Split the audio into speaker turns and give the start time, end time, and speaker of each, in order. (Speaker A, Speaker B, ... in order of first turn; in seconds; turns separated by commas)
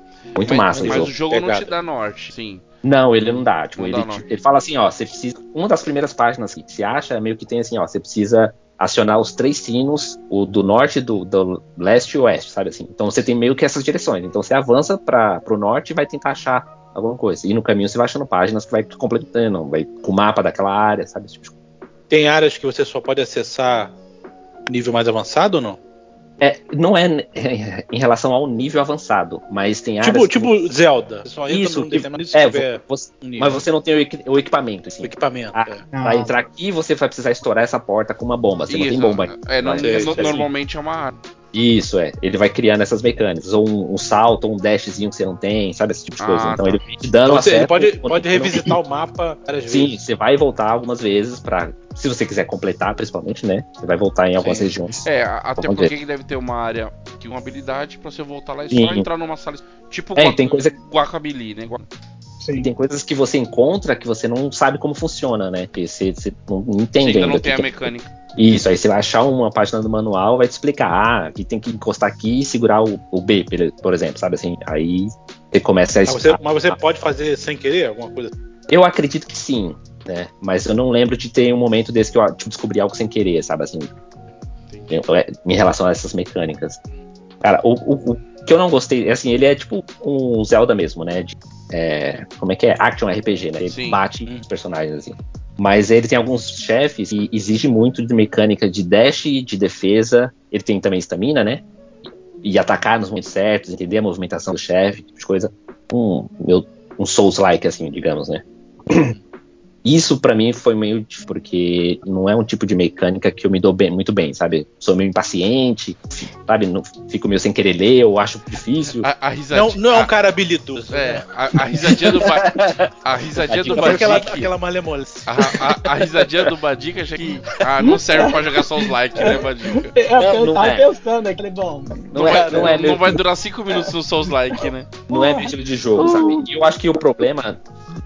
Speaker A: 0.4-1.1, Speaker B: 0.4-2.6, Speaker C: 0.7-1.7, Speaker A: 2.8-21.5, Speaker B: 3.3-4.2, Speaker C: 22.1-23.9, Speaker C: 24.7-25.8, Speaker A: 26.4-30.5, Speaker C: 30.0-33.6, Speaker A: 31.5-40.5, Speaker C: 35.0-35.8, Speaker D: 35.9-36.3, Speaker B: 38.7-41.1, Speaker C: 39.8-40.5, Speaker A: 41.5-48.7, Speaker B: 46.2-46.9, Speaker C: 47.2-50.0, Speaker A: 49.7-55.0, Speaker B: 54.4-61.9, Speaker A: 55.6-55.9, Speaker A: 58.7-59.1, Speaker A: 60.1-60.7, Speaker D: 62.4-62.7, Speaker A: 62.6-76.8, Speaker B: 67.0-68.1, Speaker C: 76.0-78.3, Speaker A: 78.7-83.9, Speaker B: 84.7-84.9, Speaker A: 84.9-86.8, Speaker A: 87.4-101.7, Speaker B: 93.6-94.0, Speaker A: 102.4-109.1, Speaker A: 109.8-119.1, Speaker B: 119.0-120.1, Speaker C: 119.5-121.2, Speaker B: 120.9-124.5, Speaker A: 121.8-122.9, Speaker A: 123.4-124.3, Speaker C: 123.7-125.5, Speaker B: 125.2-129.9, Speaker A: 125.4-125.8, Speaker D: 127.8-128.4, Speaker D: 129.2-132.1, Speaker A: 130.1-130.9, Speaker A: 132.1-133.2, Speaker B: 132.1-134.9, Speaker C: 132.2-132.9, Speaker A: 135.1-137.6, Speaker D: 135.1-136.4